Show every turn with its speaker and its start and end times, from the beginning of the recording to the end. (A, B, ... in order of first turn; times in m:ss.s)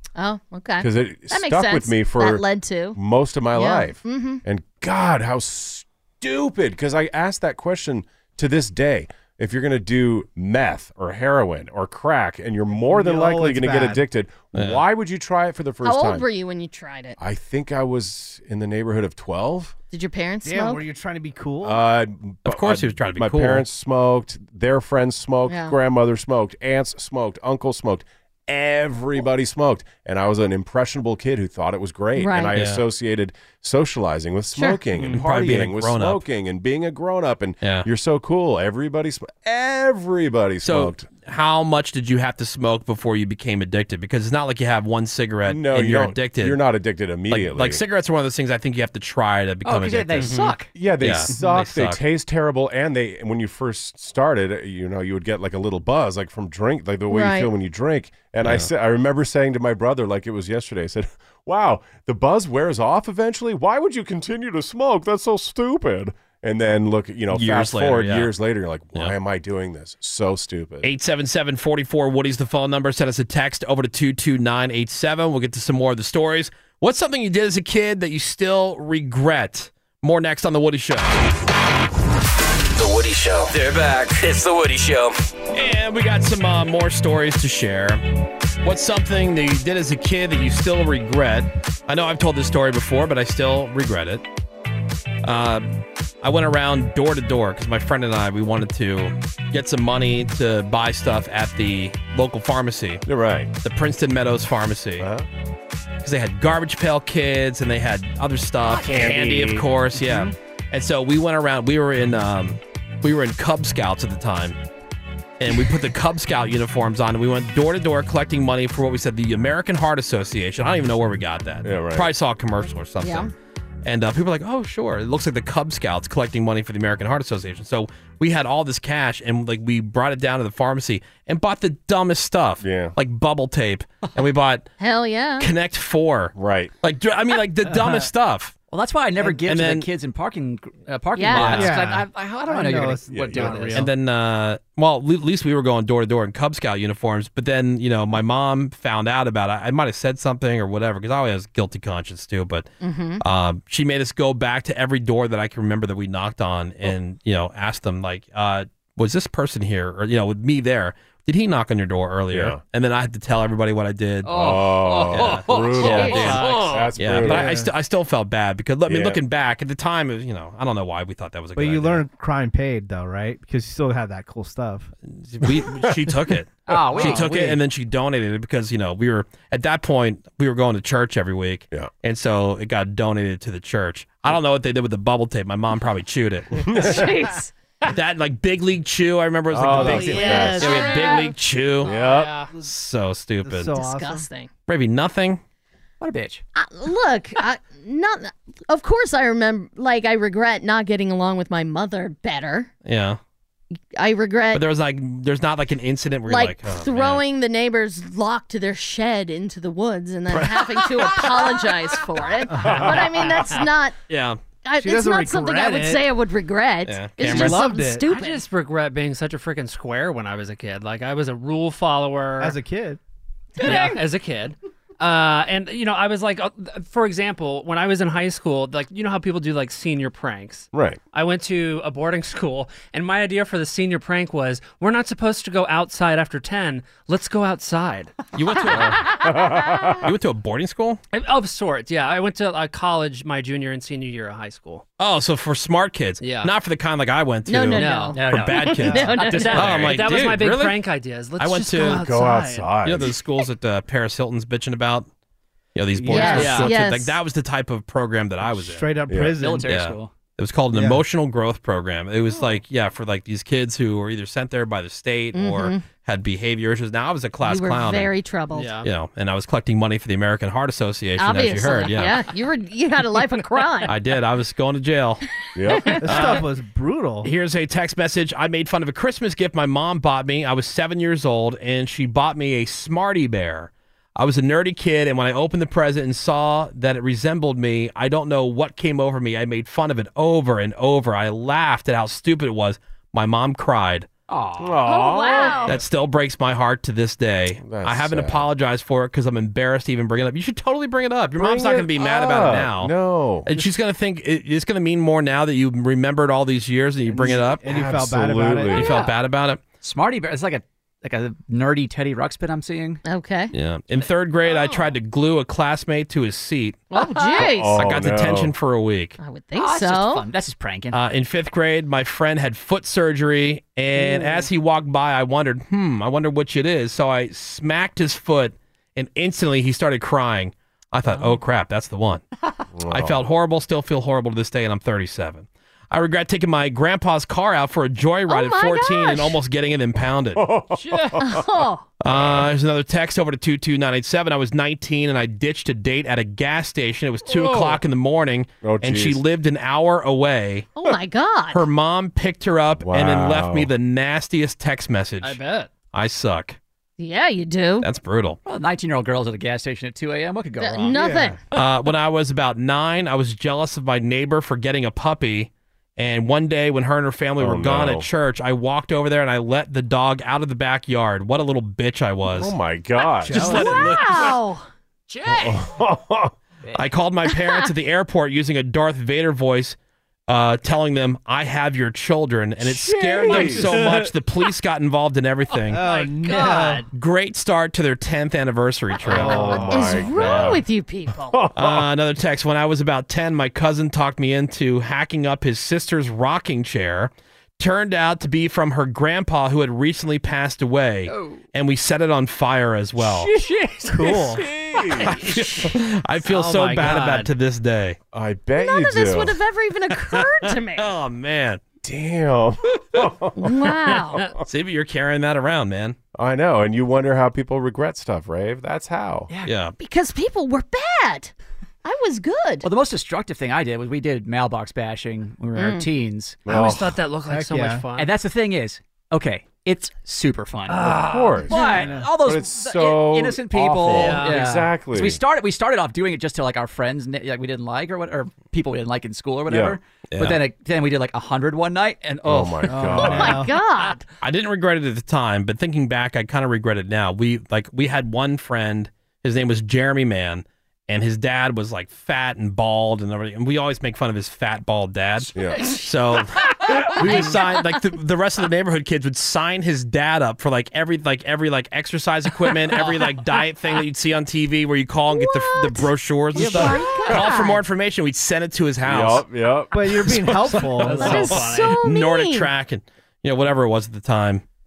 0:00.2-0:03.0 A
0:00.8-0:02.4 B
0:03.0-0:16.2 B
0:03.5-0:04.4 A
0:12.9-0:14.0 C
0:14.6-0:14.8 D
0:15.8-0:17.2 A
0:17.2-0:19.7 B
0:19.9-0:20.9 A
0:20.4-0:21.8 C
0:21.6-0:41.1 B
0:22.4-0:23.6 D
0:25.5-0:25.7 A
0:32.2-0:32.6 A
0:32.6-0:32.8 D
0:35.0-0:36.2 D
0:37.6-0:37.9 D
0:40.6-0:46.6 D
0:45.5-0:47.8 B
0:47.3-0:52.0 D
0:49.6-0:50.7 E
0:50.2-0:50.6 F
0:50.7-1:10.9 B
0:51.3-0:51.6 C
0:57.1-0:57.5 A
0:58.4-0:58.7 D
1:07.3-1:08.3 D
1:10.8-1:21.2 D
1:22.7-1:25.1 G
1:25.5-1:28.0 D
1:28.6-1:34.2 D
1:35.2-1:43.0 D
1:43.1-1:43.5 B
1:43.6-1:45.1 D
1:45.0-1:45.3 B
1:46.0-1:54.6 D
1:48.7-1:49.7 B
1:50.0-1:50.3 C
1:55.4-2:03.3 D
2:01.6-2:02.1 B
2:03.0-2:03.3 A
2:03.8-2:14.7 D
2:12.6-2:12.9 B
2:14.8-2:15.5 A
2:15.4-2:18.5 D
2:16.4-2:16.7 B
2:17.7-2:18.1 C
2:18.7-2:23.9 E
2:19.4-2:19.9 D
2:21.2-2:21.6 A
2:21.3-2:21.7 D
2:21.5-2:23.9 C
2:23.1-2:23.6 B
2:23.8-2:46.4 D
2:32.8-2:33.2 A
2:42.3-2:42.6 B
2:44.3-2:46.8 E
2:44.3-2:47.6 B
2:45.5-2:47.0 F
2:45.8-2:46.3 A
2:47.0-2:52.0 D
2:47.2-2:47.7 C
2:48.9-2:49.2 B
2:51.6-2:54.9 C
2:55.1-3:06.6 D
2:55.5-2:56.2 B
2:56.7-2:57.6 E
3:06.6-3:07.1 B
3:06.7-3:07.5 A
3:07.9-3:11.9 D
3:09.5-3:10.8 B
3:09.6-3:11.0 C
3:10.0-3:11.3 A
3:11.8-3:12.4 B
3:11.8-3:12.5 F
3:12.6-3:13.7 D
3:13.4-3:14.3 C
3:13.7-3:14.5 A
3:14.7-3:15.4 D
3:16.0-3:16.4 E
3:16.6-3:22.7 A
3:22.8-3:23.2 D
3:24.0-3:24.6 A
3:24.5-3:27.2 D
3:26.3-3:34.0 A
3:32.5-3:33.0 C
3:32.6-3:33.7 F
3:34.1-3:34.4 D
3:34.6-3:38.4 A
3:34.8-3:36.0 C
3:36.9-3:37.6 D
3:37.2-3:38.1 C
3:38.0-3:42.6 F
3:42.4-3:43.0 C
3:43.6-3:58.8 F
3:43.6-3:44.0 C
3:50.7-3:51.0 B
3:58.4-3:59.1 D
3:58.7-4:00.1 B
4:00.0-4:01.0 D
4:01.1-4:04.8 F
4:05.0-4:10.8 D
4:06.2-4:06.5 F
4:07.5-4:09.7 A
4:07.8-4:08.2 F
4:08.1-4:10.2 E
4:09.2-4:12.8 F
4:11.4-4:12.0 D
4:11.8-4:13.1 B
4:12.8-4:15.1 D
4:15.8-4:18.9 D
4:16.0-4:16.7 C
4:16.1-4:17.2 A
4:16.4-4:16.7 F
4:18.4-4:19.7 C
4:19.1-4:19.4 B
4:19.4-4:20.1 E
4:19.7-4:28.1 D
4:20.7-4:21.0 C
4:25.3-4:25.9 A
4:27.4-4:28.8 A
4:28.5-4:28.9 F
4:28.8-4:32.3 D
4:31.2-4:34.0 A
4:33.9-4:35.2 D
4:35.6-4:36.2 B
4:35.7-4:36.3 A
4:36.0-4:37.3 C
4:36.0-4:36.4 D
4:37.2-4:54.1 D
4:54.3-4:54.8 E
4:54.6-4:55.8 B
4:54.8-4:55.8 A
4:55.6-5:02.9 D
4:57.6-4:58.5 B
5:01.4-5:03.5 B
5:03.4-5:07.6 D
5:07.1-5:08.9 C
5:07.6-5:09.0 B
5:08.7-5:09.6 D
5:09.8-5:13.0 E
5:13.0-5:13.5 A
5:13.5-5:16.8 D
5:16.9-5:17.8 A
5:17.4-5:18.5 B
5:17.8-5:19.2 D
5:19.2-5:20.2 A
5:19.5-5:21.0 E
5:20.9-5:32.2 D
5:32.7-5:33.3 B
5:32.9-5:40.5 D
5:38.3-5:39.4 A
5:40.4-5:41.4 B
5:40.7-5:41.3 F
5:41.2-5:41.8 A
5:42.0-5:50.7 D
5:42.1-5:42.5 B
5:47.3-5:47.8 F
5:48.6-5:49.2 B
5:50.8-5:51.7 A
5:51.5-5:55.4 D
5:52.8-5:53.7 B
5:55.2-5:55.7 F
5:55.9-5:56.6 D
5:57.0-5:57.9 A
5:57.8-5:58.4 D
5:58.4-6:01.3 E
6:00.6-6:01.4 A
6:01.0-6:01.4 C
6:01.5-6:12.6 D
6:07.4-6:08.1 B
6:12.3-6:13.8 B
6:13.2-6:14.4 D
6:13.3-6:13.6 F
6:13.4-6:14.6 A
6:15.1-6:15.7 F
6:15.3-6:16.3 B
6:16.8-6:19.8 D
6:17.3-6:17.7 A
6:20.3-6:25.8 D
6:22.8-6:23.5 A
6:23.1-6:23.9 B
6:25.7-6:26.9 C
6:25.7-6:26.9 F
6:26.9-6:29.7 D
6:29.1-6:30.6 B
6:29.1-6:30.0 C
6:29.2-6:29.6 F
6:29.6-6:31.4 A
6:31.2-6:31.9 B
6:31.6-6:43.3 D
6:41.1-6:41.4 E
6:43.0-6:44.4 F
6:43.9-6:44.4 C
6:44.3-6:45.2 B
6:45.0-6:48.0 D
6:45.2-6:45.8 A
6:46.3-6:47.3 F
6:48.1-6:49.4 B
6:48.6-6:50.9 A
6:50.8-6:51.6 D
6:51.8-6:54.3 B
6:53.4-6:54.2 A
6:54.4-6:56.0 D
6:56.2-6:59.3 B
6:59.4-6:59.8 D
6:59.8-7:01.3 A
7:01.8-7:02.7 A
7:02.6-7:06.4 E
7:05.6-7:05.9 A
7:06.4-7:07.0 B
7:06.5-7:08.1 F
7:07.3-7:07.8 C
7:08.0-7:22.8 E
7:10.7-7:11.7 F
7:10.9-7:15.2 B
7:11.5-7:11.8 A
7:11.7-7:12.1 C
7:13.8-7:14.6 F
7:19.5-7:19.8 B
7:20.1-7:20.4 D
7:22.2-7:23.5 B
7:22.7-7:23.6 C
7:23.0-7:24.0 A
7:24.2-7:49.2 D
7:35.4-7:35.6 B
7:37.0-7:37.6 A
7:45.1-7:47.6 A
7:46.4-7:46.8 C
7:48.8-7:50.6 B
7:49.7-7:51.6 C
7:50.0-7:54.4 D
7:50.8-7:51.8 F
7:51.0-7:52.5 A